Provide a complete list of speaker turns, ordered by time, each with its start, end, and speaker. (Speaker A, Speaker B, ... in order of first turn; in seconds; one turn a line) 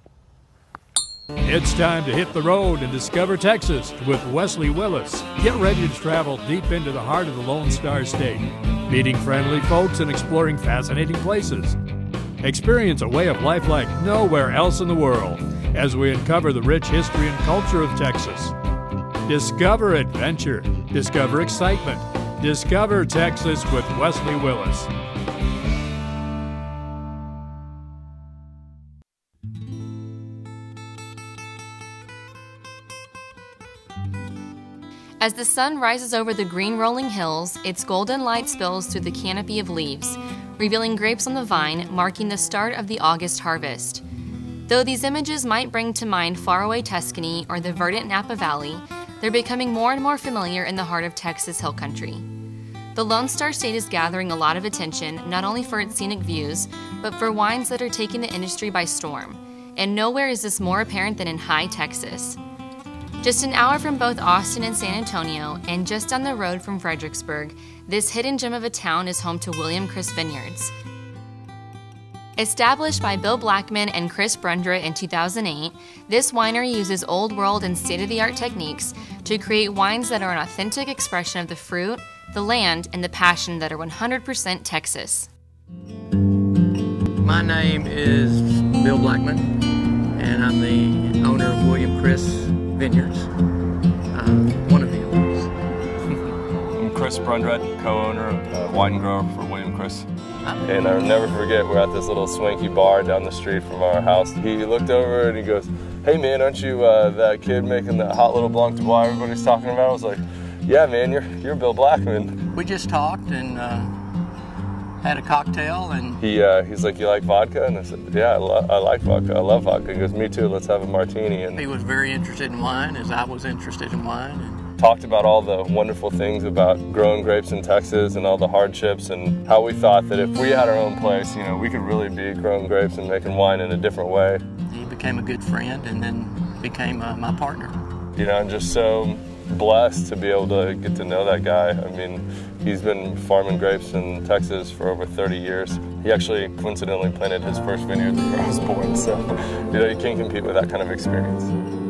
Speaker A: 1.4-11.8
Speaker A: 12.4-18.6
Speaker A: 19.3-24.9
Speaker B: 35.2-44.0
Speaker B: 44.7-52.3
Speaker B: 53.0-62.4
Speaker B: 63.2-70.7
Speaker B: 72.4-85.3
Speaker C: 87.2-93.3
Speaker C: 94.1-95.5
Speaker D: 96.7-100.1
Speaker D: 100.6-112.4
Speaker C: 112.5-114.0
Speaker C: 115.0-116.2
Speaker D: 116.2-121.6
Speaker C: 121.6-124.7
Speaker D: 124.8-134.4
Speaker C: 134.7-137.9
Speaker D: 138.1-151.5